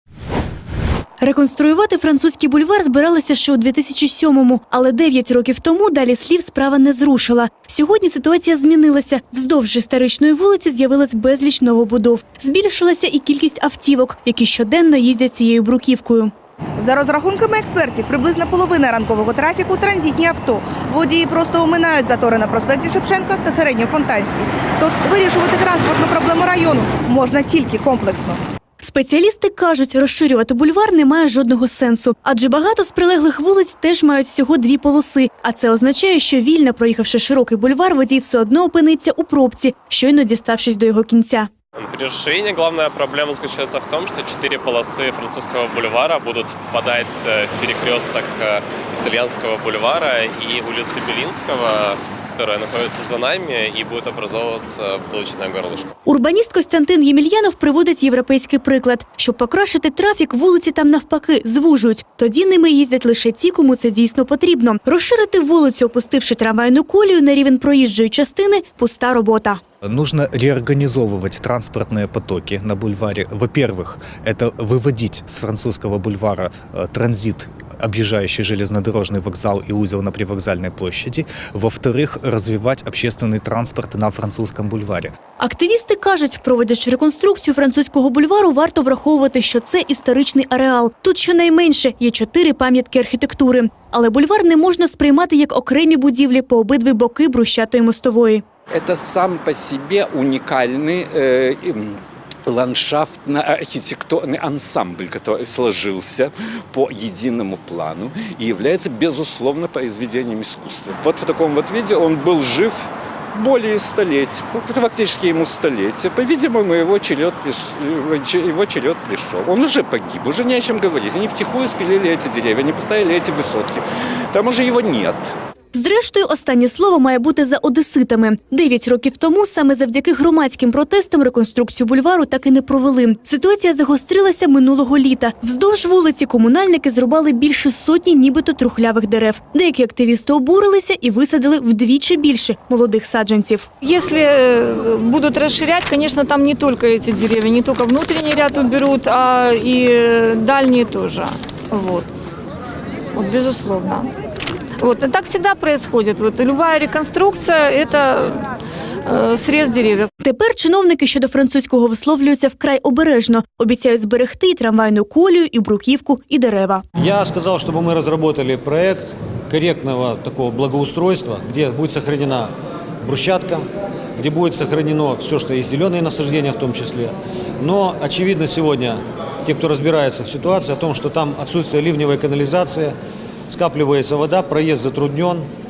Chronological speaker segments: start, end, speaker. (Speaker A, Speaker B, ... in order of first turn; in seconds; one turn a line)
Speaker A: 1.2-16.3
Speaker B: 16.8-28.4
Speaker A: 28.8-41.5
Speaker C: 41.8-55.9
Speaker A: 56.0-69.6
Speaker D: 69.8-85.1
Speaker A: 85.4-98.4
Speaker E: 98.7-125.3
Speaker A: 125.7-143.7
Speaker F: 143.8-152.1
Speaker F: 153.1-154.1
Speaker F: 154.8-158.5
Speaker F: 159.1-160.1
Speaker A: 160.2-166.8
Speaker G: 167.0-173.7
Speaker G: 174.2-182.9
Speaker G: 183.5-185.5